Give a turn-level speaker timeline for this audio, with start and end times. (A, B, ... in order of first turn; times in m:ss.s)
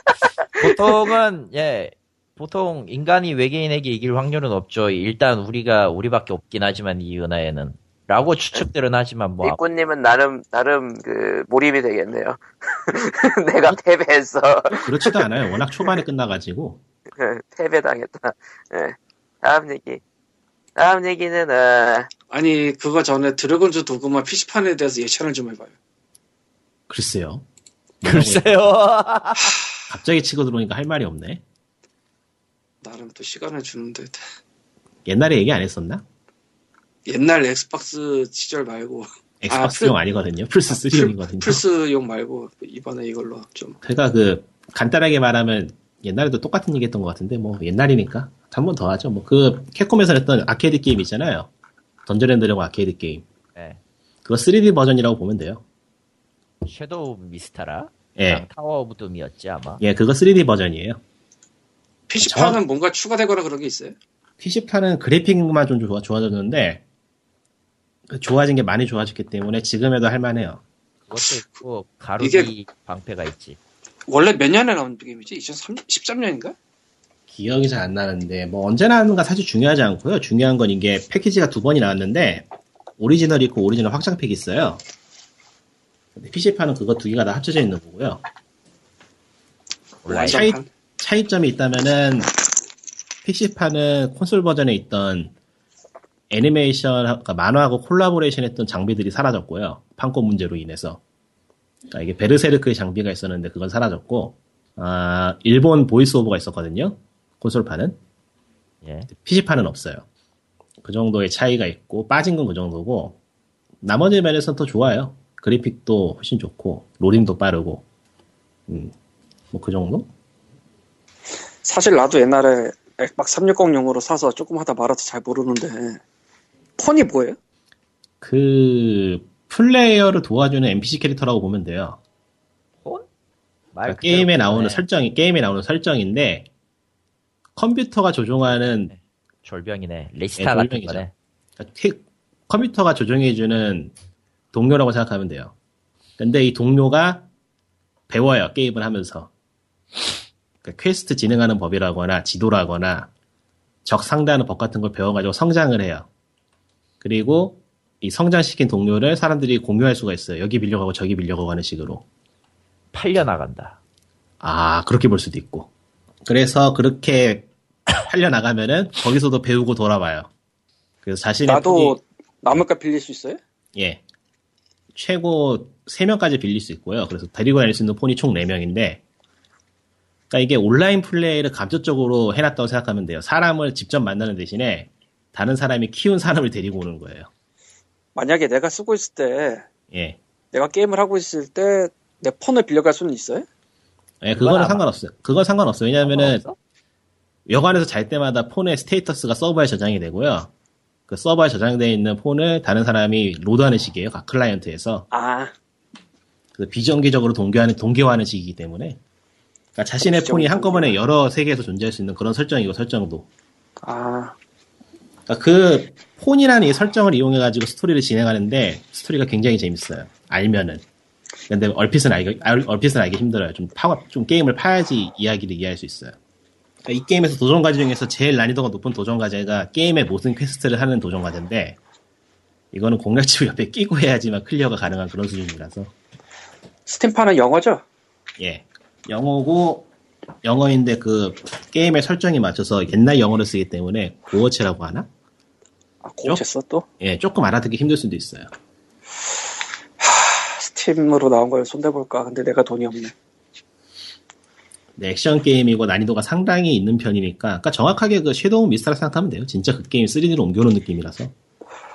0:00.6-0:09.6 A
0:09.4-0:15.2 B
0:14.7-0:16.8 C
0:17.2-0:20.0 B
0:20.8-0:22.1 B
0:22.3-0:25.7 D
0:26.9-0:27.4 C
0:28.0-0:28.6 C
0:28.0-0:29.6 A
0:29.9-0:31.4 C
0:32.8-0:34.2 D
0:35.0-0:36.0 C
0:37.0-0:39.9 D
0:39.4-0:41.6 C
0:40.7-0:43.8 D
0:43.8-0:51.5 C
0:52.0-0:53.2 C
0:54.2-0:55.6 C
0:56.6-0:59.8 A
0:58.2-0:58.4 C
0:59.8-1:01.0 C
1:02.1-1:03.9 D
1:02.2-1:02.6 C
1:04.4-1:06.8 C
1:08.1-1:10.6 C
1:11.1-1:13.6 A
1:12.2-1:12.5 D
1:14.1-1:16.6 D
1:17.3-1:22.5 C
1:23.0-1:24.8 C
1:26.1-1:28.2 C
1:30.0-1:30.4 A
1:30.1-1:30.7 D
1:30.2-1:32.3 C
1:33.2-1:35.3 C
1:36.3-1:41.0 C
1:41.9-1:48.0 C
1:48.8-1:49.1 A
1:49.1-1:50.0 C
1:50.8-1:53.2 C
1:53.8-1:57.8 C
1:58.7-1:58.9 C
1:59.5-2:00.1 C
2:01.6-2:06.0 D
2:06.8-2:07.4 D
2:08.2-2:12.0 C
2:13.7-2:14.8 A
2:13.8-2:16.5 C
2:17.6-2:18.9 C
2:18.7-2:21.1 A
2:20.4-2:21.0 C
2:21.6-2:23.9 C
2:24.5-2:25.5 C
2:26.2-2:27.2 C
2:28.1-2:29.3 C
2:30.6-2:33.1 C
2:33.8-2:36.1 C
2:37.0-2:42.0 C
2:42.9-2:43.8 A
2:44.4-2:45.7 C
2:46.2-2:47.5 C
2:48.0-2:50.3 C
2:51.0-2:52.0 C
2:51.4-2:53.4 D
2:53.7-2:54.0 C
2:54.9-2:59.0 C
3:00.3-3:07.3 C
3:08.1-3:09.6 D
3:09.9-3:10.2 C
3:10.5-3:13.4 D
3:14.2-3:16.4 C
3:14.4-3:14.8 A
3:16.0-3:16.6 A
3:17.5-3:20.5 C
3:21.1-3:25.1 C
3:25.1-3:25.5 D
3:26.5-3:29.0 C
3:29.7-3:33.3 C
3:30.0-3:31.0 D
3:33.8-3:34.3 D
3:35.3-3:40.8 C
3:41.5-3:46.2 C
3:46.8-3:51.8 C
3:52.7-3:55.9 C
3:56.9-3:57.8 D
3:58.4-3:59.9 C
4:00.4-4:05.1 C
4:06.0-4:06.8 D
4:07.0-4:08.5 C
4:10.0-4:13.1 D
4:15.0-4:21.3 C